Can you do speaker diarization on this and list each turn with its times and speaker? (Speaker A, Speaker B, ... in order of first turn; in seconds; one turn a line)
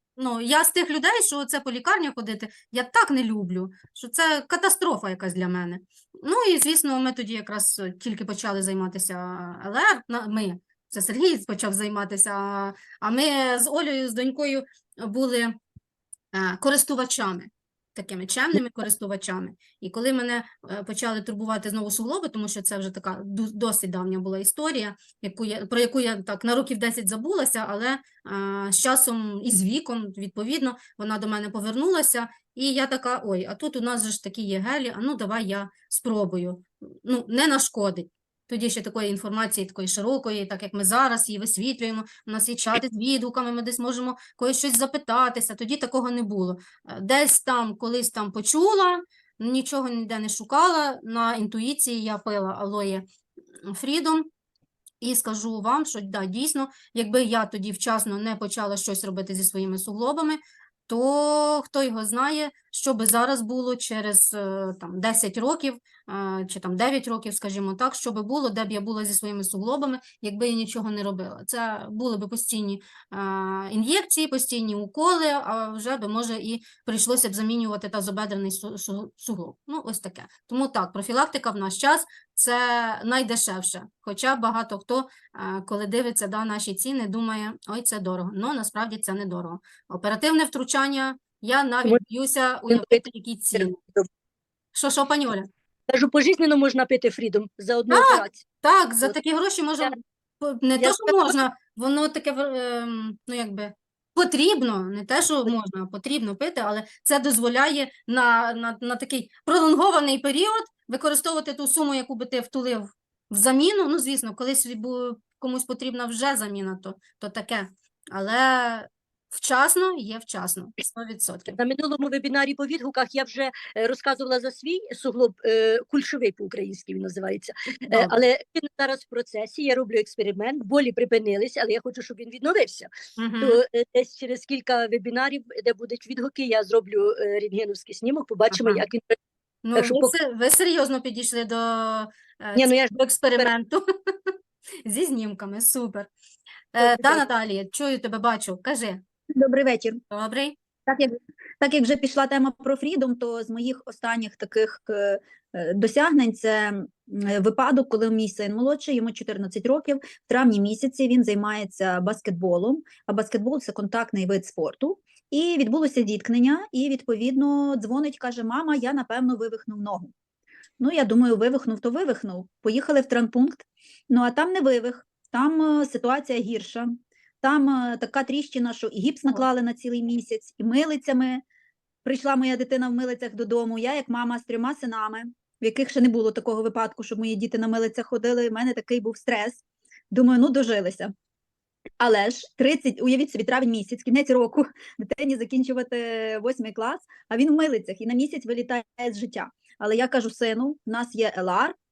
Speaker A: 0.2-15.6
Speaker A: 16.3-53.1
Speaker A: 53.7-54.3
Speaker A: 55.0-93.8
Speaker B: 92.7-94.1
Speaker A: 94.8-95.5
Speaker B: 95.9-98.5
Speaker A: 97.9-121.6
Speaker B: 100.8-101.4
Speaker B: 121.5-132.9
Speaker A: 127.9-128.2
Speaker A: 133.2-133.6
Speaker B: 133.4-139.1
Speaker A: 138.5-138.8
Speaker A: 139.6-144.3
Speaker B: 139.8-140.1
Speaker B: 142.6-143.5
Speaker A: 144.8-146.1
Speaker A: 146.7-149.0
Speaker B: 146.8-147.2
Speaker C: 149.3-150.0
Speaker A: 150.1-150.6
Speaker C: 150.9-170.1
Speaker C: 170.8-181.4
Speaker C: 182.1-191.1
Speaker C: 192.0-201.8